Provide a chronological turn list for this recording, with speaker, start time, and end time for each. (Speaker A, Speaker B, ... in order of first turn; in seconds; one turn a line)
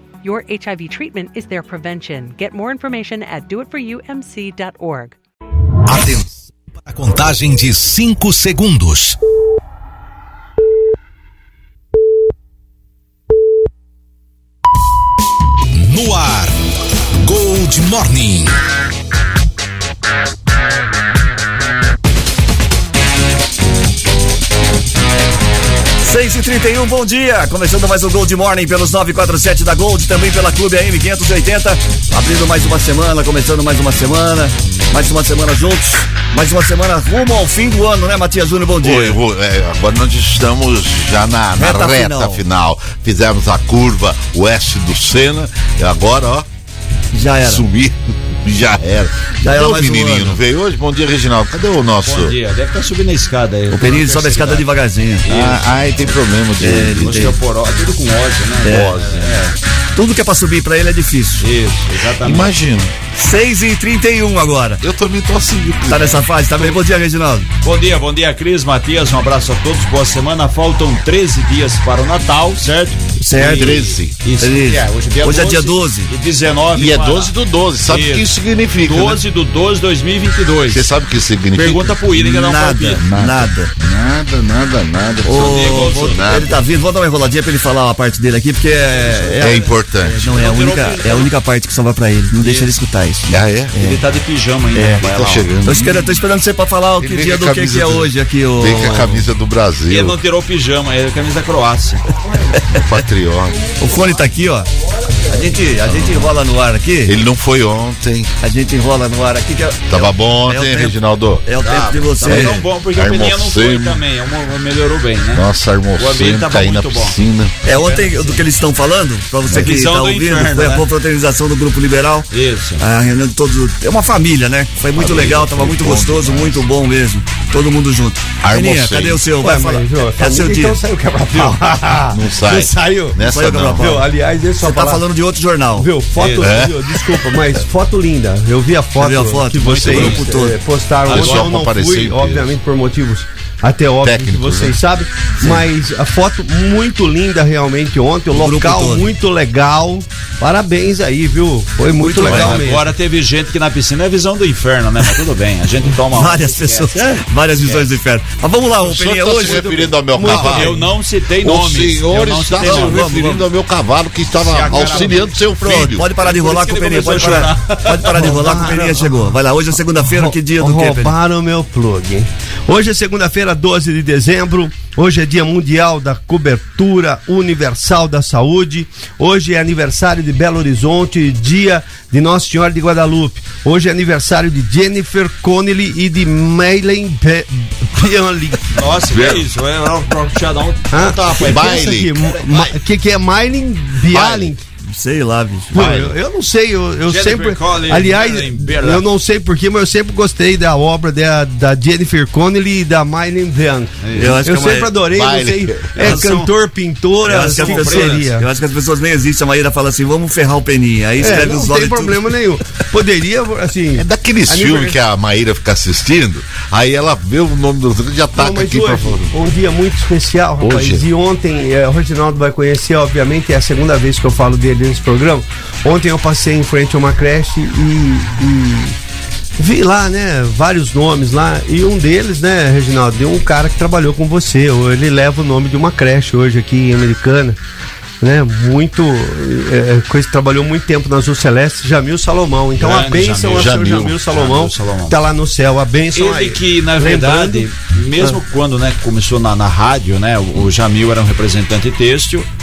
Speaker A: 0.2-5.2
Speaker B: 5.8-9.2
Speaker B: 15.7-16.6
Speaker B: 17.2-18.5
Speaker C: 26.0-39.2
Speaker D: 38.8-46.5
Speaker C: 41.6-42.4
Speaker C: 47.1-47.7
Speaker D: 47.5-52.3
Speaker C: 49.4-50.4
Speaker E: 52.0-54.7
Speaker C: 53.7-55.3
Speaker E: 55.2-55.6
Speaker D: 55.3-57.2
Speaker C: 56.6-57.4
Speaker E: 57.0-59.6
Speaker C: 58.6-59.0
Speaker D: 58.6-59.4
Speaker C: 60.0-61.4
Speaker E: 61.4-62.5
Speaker D: 62.2-62.9
Speaker C: 63.1-64.8
Speaker D: 64.8-66.2
Speaker C: 65.9-67.5
Speaker E: 67.6-78.3
Speaker C: 73.2-76.1
Speaker D: 73.4-74.2
Speaker D: 76.7-79.2
Speaker E: 78.8-80.8
Speaker D: 80.7-82.0
Speaker E: 81.5-83.0
Speaker C: 82.2-83.7
Speaker D: 83.0-86.6
Speaker C: 85.2-94.0
Speaker E: 85.4-86.2
Speaker E: 88.9-89.8
Speaker D: 89.4-90.4
Speaker E: 90.3-91.3
Speaker E: 92.3-92.7
Speaker D: 93.3-93.7
Speaker E: 93.8-95.5
Speaker C: 94.8-95.0
Speaker D: 95.0-96.0
Speaker C: 95.6-99.3
Speaker D: 97.0-100.2
Speaker E: 99.9-102.0
Speaker C: 102.5-102.8
Speaker D: 102.7-103.7
Speaker C: 103.8-104.7
Speaker C: 105.3-107.2
Speaker D: 105.8-106.3
Speaker D: 107.1-108.3
Speaker C: 108.4-112.6
Speaker D: 109.9-111.4
Speaker E: 111.6-115.4
Speaker D: 112.2-114.0
Speaker D: 115.3-117.5
Speaker E: 116.0-118.4
Speaker C: 117.7-122.3
Speaker E: 119.5-120.9
Speaker E: 122.3-122.8
Speaker C: 122.8-130.8
Speaker D: 125.0-126.7
Speaker D: 128.4-129.2
Speaker F: 129.4-135.0
Speaker C: 131.3-131.6
Speaker D: 132.1-134.0
Speaker C: 133.3-134.1
Speaker C: 134.6-135.9
Speaker F: 135.8-152.9
Speaker E: 136.2-136.5
Speaker D: 136.4-137.3
Speaker C: 139.0-140.6
Speaker E: 139.6-140.3
Speaker E: 141.1-141.6
Speaker D: 141.1-142.6
Speaker D: 144.0-144.8
Speaker C: 148.3-149.1
Speaker E: 152.0-157.9
Speaker C: 152.1-152.6
Speaker C: 156.1-159.9
Speaker D: 158.8-160.8
Speaker F: 160.2-160.8
Speaker E: 160.2-163.1
Speaker D: 161.4-166.1
Speaker C: 162.6-163.5
Speaker E: 164.4-165.4
Speaker C: 164.7-171.2
Speaker E: 166.2-168.6
Speaker F: 168.1-169.3
Speaker F: 170.0-188.6
Speaker E: 188.7-192.7
Speaker D: 189.1-189.4
Speaker F: 190.9-194.7
Speaker D: 191.4-192.1
Speaker C: 194.9-196.0
Speaker F: 195.7-208.5
Speaker E: 195.8-196.1
Speaker E: 197.1-199.0
Speaker E: 204.0-204.3
Speaker C: 204.2-204.9
Speaker D: 205.1-206.2
Speaker E: 206.0-206.5
Speaker E: 207.2-208.3
Speaker C: 207.2-212.3
Speaker F: 211.2-215.0
Speaker D: 214.0-219.3
Speaker F: 218.3-229.0
Speaker D: 220.6-221.0
Speaker F: 229.6-237.6
Speaker F: 238.2-248.4
Speaker E: 242.8-245.2
Speaker D: 243.5-244.2
Speaker E: 246.2-252.5